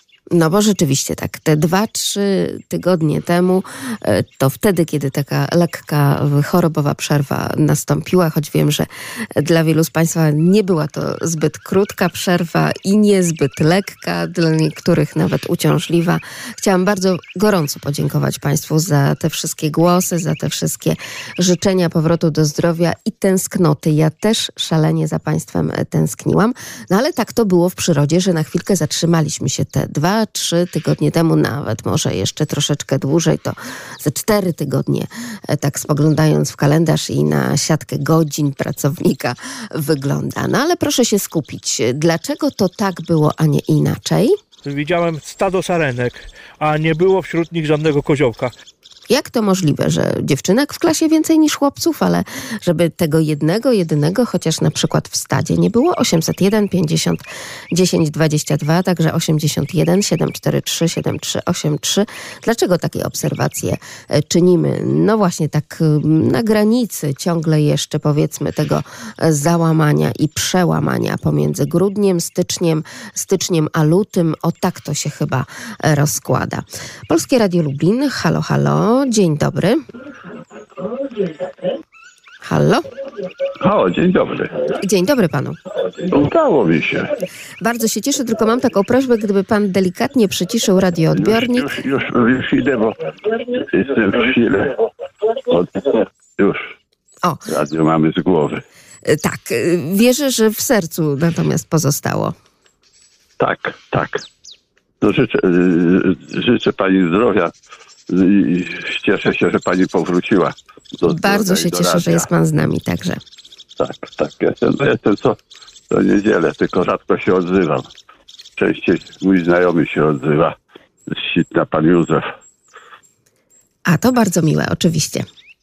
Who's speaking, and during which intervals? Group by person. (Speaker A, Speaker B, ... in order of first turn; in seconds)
Speaker A: 0.3-44.4, 49.1-79.8, 82.4-82.8, 84.8-85.6, 87.6-91.7, 97.2-97.5, 99.0-102.3, 111.1-113.2, 123.9-125.2
Speaker B: 44.7-48.5
Speaker C: 83.6-84.7, 86.0-87.2, 91.2-96.7, 97.5-98.6, 103.4-104.2, 105.0-107.5, 108.1-112.3, 113.8-115.4, 115.9-117.9, 118.6-120.5, 121.1-122.3